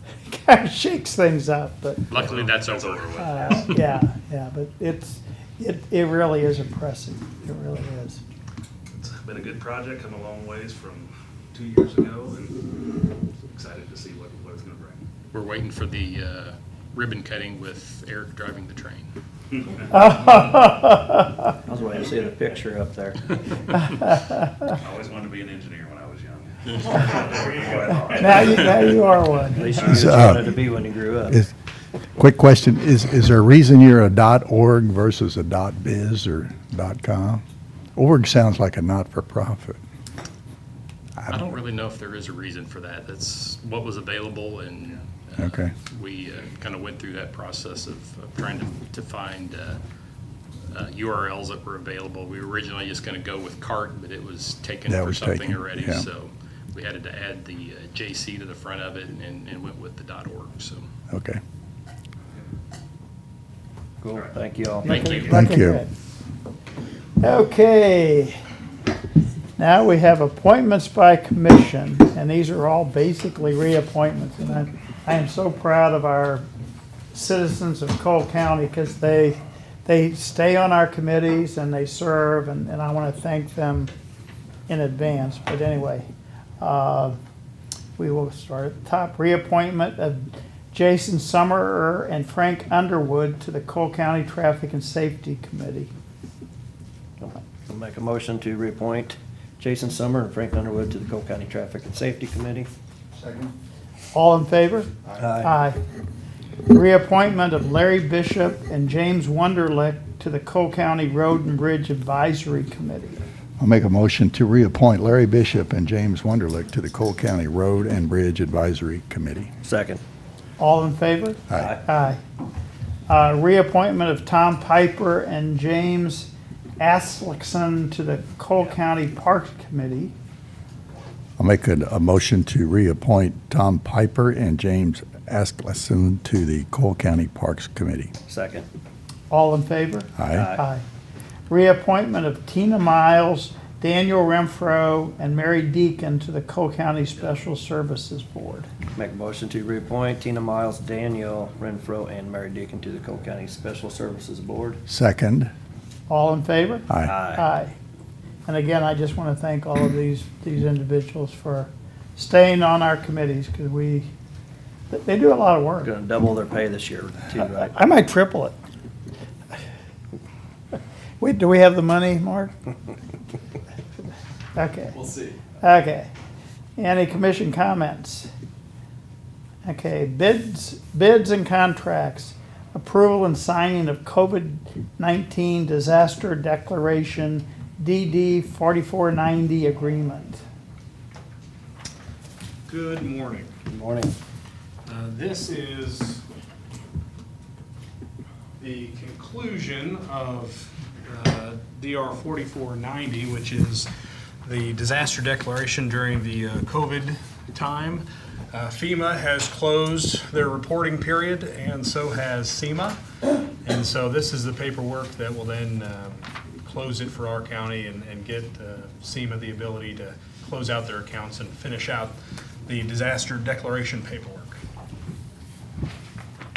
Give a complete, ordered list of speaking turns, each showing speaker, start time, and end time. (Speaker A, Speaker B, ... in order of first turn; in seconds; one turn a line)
Speaker A: 0.3-2.0
Speaker B: 2.1-3.6
Speaker C: 2.8-3.4
Speaker A: 3.2-8.2
Speaker D: 8.9-12.6
Speaker C: 9.1-11.0
Speaker C: 11.6-12.4
Speaker D: 13.5-15.0
Speaker C: 14.0-14.4
Speaker B: 15.3-19.1
Speaker A: 19.9-21.5
Speaker E: 21.7-23.2
Speaker C: 24.8-28.9
Speaker A: 28.1-29.9
Speaker E: 29.6-31.4
Speaker F: 29.9-30.6
Speaker F: 32.2-37.4
Speaker F: 38.0-39.8
Speaker B: 41.3-49.8
Speaker F: 45.4-45.7
Speaker B: 50.7-60.9
Speaker F: 54.9-56.0
Speaker F: 61.1-61.4
Speaker E: 64.0-65.1
Speaker B: 64.8-65.3
Speaker A: 64.8-65.9
Speaker F: 65.3-65.8
Speaker A: 67.2-68.4
Speaker A: 69.6-76.5
Speaker A: 77.1-83.9
Speaker A: 84.7-86.1
Speaker A: 86.6-87.2
Speaker A: 88.0-95.9
Speaker E: 97.2-102.7
Speaker A: 104.1-104.9
Speaker E: 105.2-105.5
Speaker A: 105.4-105.8
Speaker A: 106.7-113.2
Speaker F: 113.6-119.5
Speaker E: 119.6-120.0
Speaker A: 120.6-122.2
Speaker A: 123.1-130.1
Speaker F: 131.4-138.1
Speaker E: 138.3-138.7
Speaker A: 139.3-140.8
Speaker F: 140.2-140.5
Speaker E: 140.3-140.6
Speaker A: 141.5-148.7
Speaker E: 148.9-154.8
Speaker F: 154.9-155.5
Speaker A: 156.1-157.8
Speaker E: 157.0-157.4
Speaker A: 158.5-164.1
Speaker A: 164.9-165.9
Speaker E: 165.8-167.7
Speaker A: 167.6-168.6
Speaker A: 171.2-172.5
Speaker A: 174.6-175.0
Speaker A: 175.6-176.1
Speaker A: 176.8-178.3
Speaker A: 179.6-190.4
Speaker D: 192.7-193.6
Speaker E: 193.6-194.1
Speaker D: 194.9-196.2
Speaker D: 198.6-203.9
Speaker D: 204.4-213.0
Speaker D: 213.6-224.6